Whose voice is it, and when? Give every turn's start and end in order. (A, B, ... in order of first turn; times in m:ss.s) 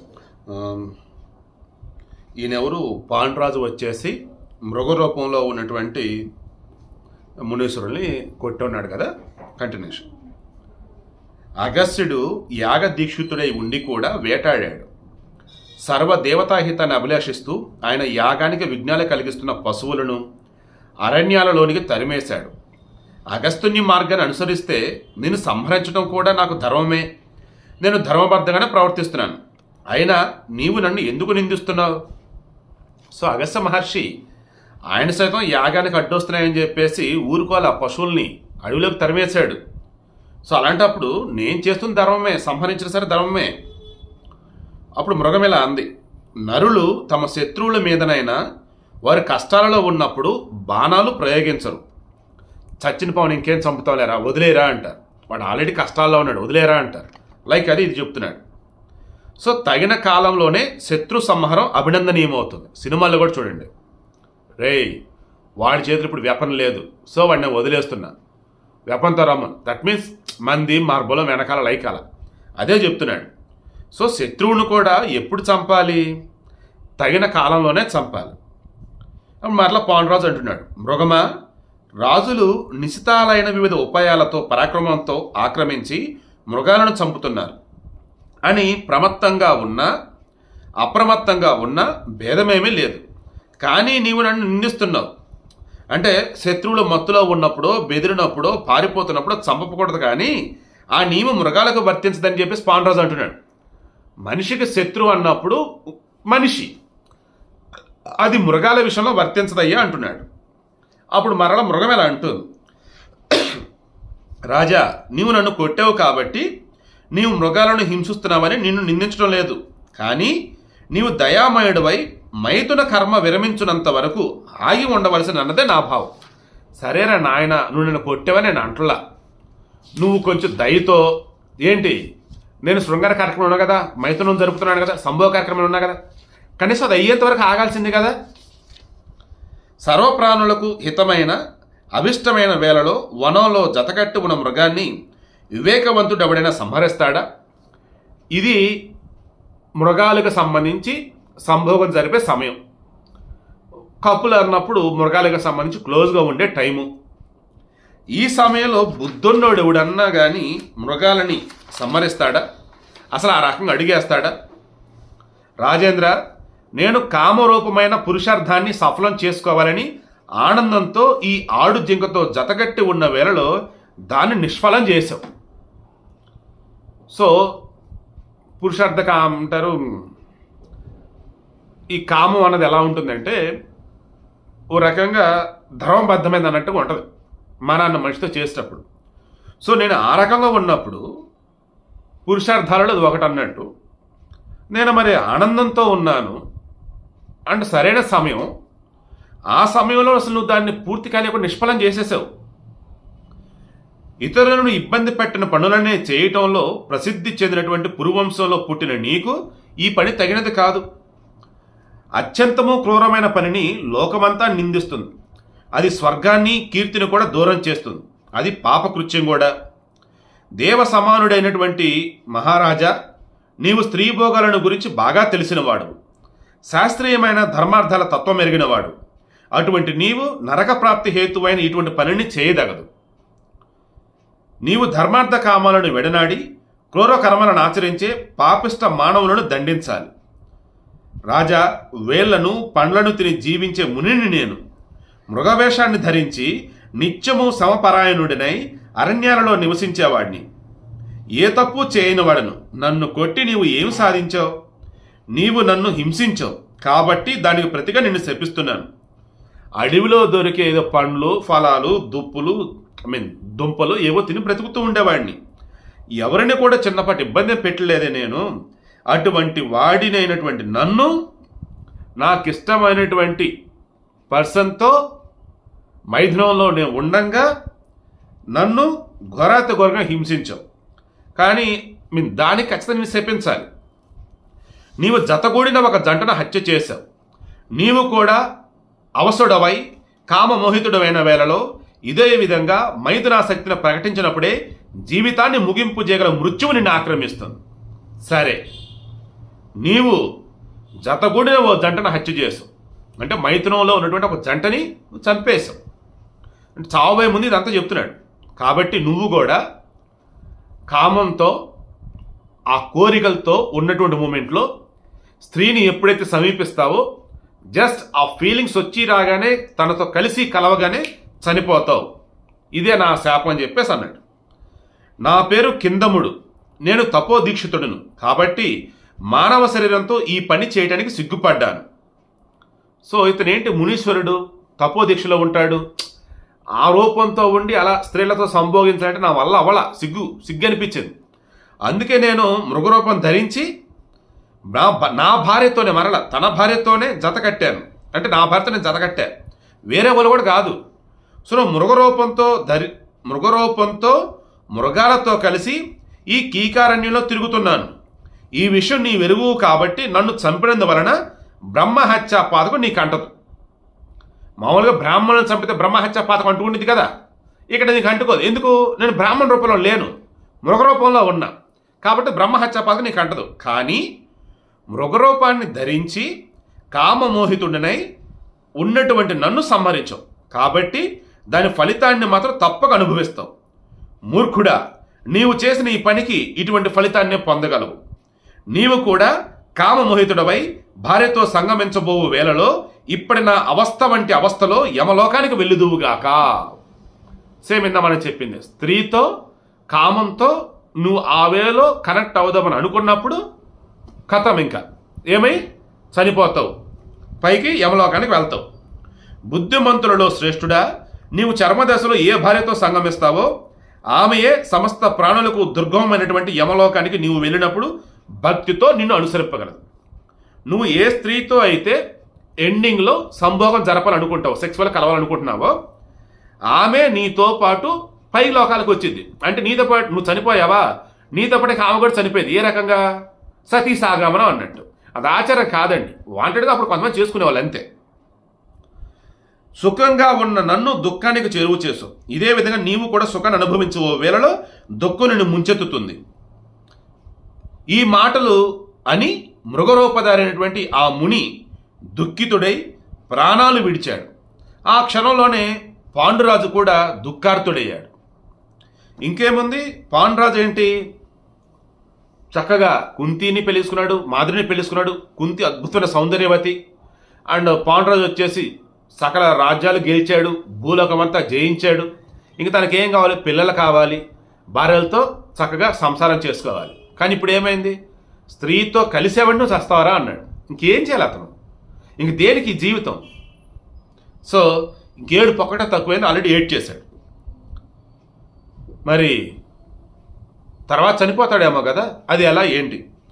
0:00.5-0:00.9 A
0:02.4-0:04.2 A
0:04.7-0:06.1 A
0:07.5-0:10.0 A
0:11.6-0:14.9 A
0:15.9-0:20.2 A
0:21.1-0:22.5 A
0:23.3-0:27.0 A
0:27.8-0:29.4 A
0:29.9-0:32.0 A
0:33.1-0:34.1 A
0:34.9-0:39.6 A
0:40.5-0:43.5 A
0:45.0-0:45.9 A
0:46.4-0:48.4 A
0:49.1-0:51.8 A
0:52.8-0:58.4 A
0:59.4-1:03.7 A
1:04.6-1:05.0 A
1:05.6-1:08.1 A
1:08.9-1:12.0 A
1:12.6-1:13.3 A
1:13.9-1:16.0 A
1:17.0-1:18.4 A
1:19.4-1:21.2 A
1:22.0-1:26.0 A
1:26.5-1:27.6 A
1:28.4-1:29.9 A
1:30.8-1:33.0 A
1:33.6-1:35.1 A
1:35.9-1:40.3 A
1:41.0-1:43.4 A
1:44.3-1:45.6 A
1:46.3-1:46.7 A
1:48.2-1:50.2 A
1:51.2-1:52.4 A
1:53.3-1:53.6 A
1:54.5-1:56.4 A
1:57.2-2:00.3 A
2:00.9-2:06.1 A
2:06.8-2:09.0 A
2:10.0-2:11.0 A
2:11.6-2:12.0 A
2:12.7-2:16.0 A
2:16.6-2:18.2 A
2:19.9-2:21.4 A
2:22.0-2:24.9 A
2:25.6-2:27.2 A
2:29.8-2:32.6 A
2:34.0-2:36.9 A
2:38.2-2:42.4 A
2:43.1-2:44.3 A
2:45.6-2:46.2 A
2:46.8-2:49.9 A
2:50.4-2:53.5 A
2:54.1-2:55.2 A
2:58.6-2:59.8 A
3:01.9-3:03.4 A
3:04.7-3:05.3 A
3:05.8-3:07.0 A
3:07.7-3:08.8 A
3:09.6-3:11.0 A
3:12.3-3:13.6 A
3:14.7-3:16.4 A
3:17.5-3:18.5 A
3:19.6-3:22.2 A
3:24.2-3:30.8 A
3:32.2-3:35.1 A
3:35.8-3:39.5 A
3:40.6-3:42.9 A
3:43.6-3:45.9 A
3:46.7-3:48.9 A
3:49.6-3:52.9 A
3:54.7-3:56.4 A
3:56.9-4:00.1 A
4:01.3-4:04.6 A
4:05.3-4:10.4 A
4:11.4-4:14.5 A
4:15.4-4:18.9 A
4:19.8-4:25.4 A
4:26.2-4:28.4 A
4:29.1-4:31.1 A
4:32.2-4:33.5 A
4:34.3-4:35.0 A
4:36.1-4:37.5 A
4:38.6-4:40.6 A
4:41.4-4:43.7 A
4:45.0-4:47.0 A
4:47.8-4:48.4 A
4:49.2-4:54.5 A
4:55.0-4:57.6 A
4:58.3-4:58.6 A
4:59.8-5:00.2 A
5:01.1-5:02.7 A
5:03.2-5:05.8 A
5:06.8-5:09.6 A
5:10.9-5:11.6 A
5:12.7-5:14.7 A
5:15.4-5:17.0 A
5:17.8-5:22.0 A
5:22.8-5:24.2 A
5:25.2-5:26.3 A
5:26.8-5:28.7 A
5:29.3-5:31.8 A
5:33.0-5:35.8 A
5:36.8-5:41.1 A
5:41.9-5:43.6 A
5:44.7-5:49.3 A
5:49.9-5:50.8 A
5:51.5-5:54.2 A
5:54.8-5:55.8 A
5:56.3-5:57.9 A
5:58.6-6:01.2 A
6:01.7-6:03.3 A
6:04.6-6:07.1 A
6:07.7-6:10.1 A
6:10.6-6:11.5 A
6:12.0-6:14.0 A
6:14.9-6:16.3 A
6:16.9-6:18.0 A
6:18.8-6:23.5 A
6:24.3-6:24.8 A
6:25.3-6:28.0 A
6:28.7-6:36.8 A
6:37.6-6:39.3 A
6:39.9-6:43.4 A
6:44.3-6:45.6 A
6:46.1-6:46.7 A
6:47.4-6:48.6 A
6:49.5-6:50.8 A
6:51.4-6:53.5 A
6:54.2-6:57.9 A
6:58.4-6:59.8 A
7:00.7-7:02.0 A
7:02.6-7:05.7 A
7:06.7-7:10.8 A
7:11.4-7:13.0 A
7:13.7-7:17.8 A
7:19.8-7:26.2 A
7:27.9-7:28.6 A
7:29.1-7:31.5 A
7:32.2-7:32.8 A
7:33.3-7:34.3 A
7:34.9-7:38.1 A
7:39.2-7:40.9 A
7:42.5-7:46.8 A
7:47.5-7:54.2 A
7:54.8-7:58.0 A
7:58.5-8:01.5 A
8:02.2-8:03.2 A
8:05.2-8:07.0 A
8:09.1-8:09.4 A
8:10.9-8:13.0 A